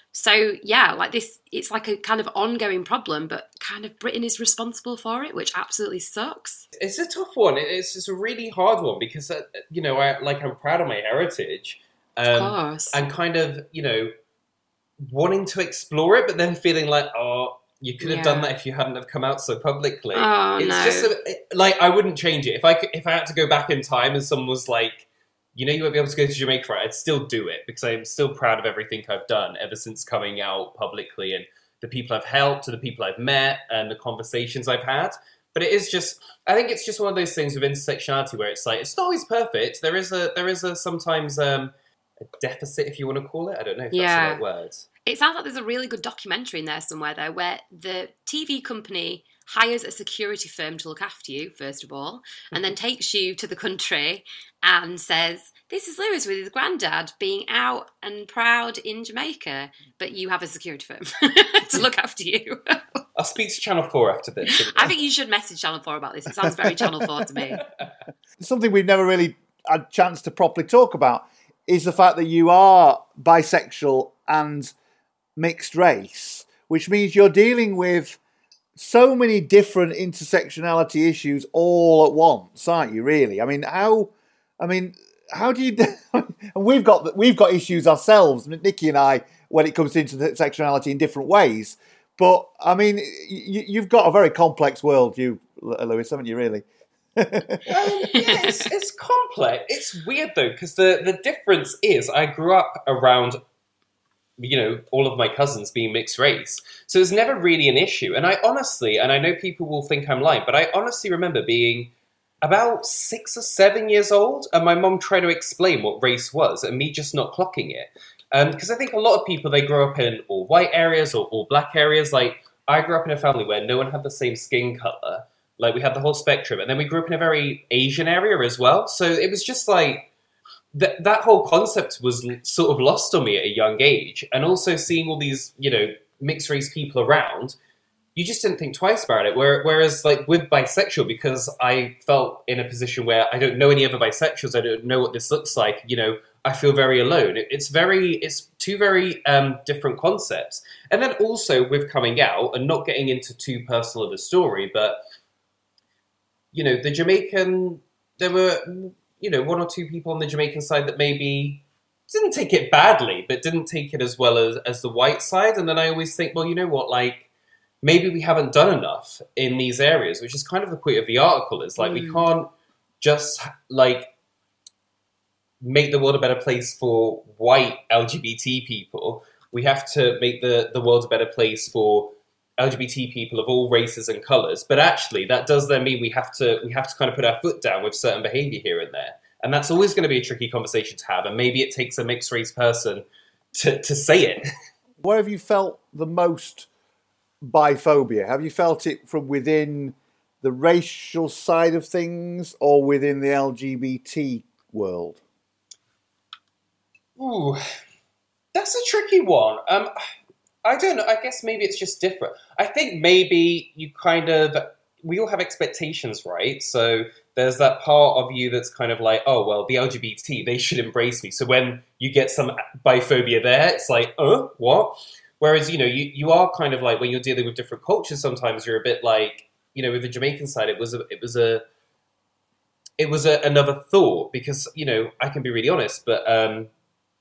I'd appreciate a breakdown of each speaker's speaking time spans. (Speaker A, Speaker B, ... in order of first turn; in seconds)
Speaker A: 0.1-6.7, 12.2-13.0, 18.0-18.5, 20.1-21.1, 43.9-44.4, 45.0-62.6, 64.7-67.6, 98.1-98.4, 171.8-172.3
Speaker B: 6.8-14.1, 15.0-41.7, 42.4-44.9, 63.2-64.9, 97.7-103.4, 104.4-130.1, 130.7-137.6, 138.2-155.0, 156.5-167.3, 167.8-174.1, 175.6-194.4, 207.2-207.6, 208.5-209.9, 210.6-231.7, 233.0-236.7
Speaker C: 68.4-74.7, 75.4-78.2, 78.8-96.7, 97.2-97.6, 195.0-196.7, 197.4-205.2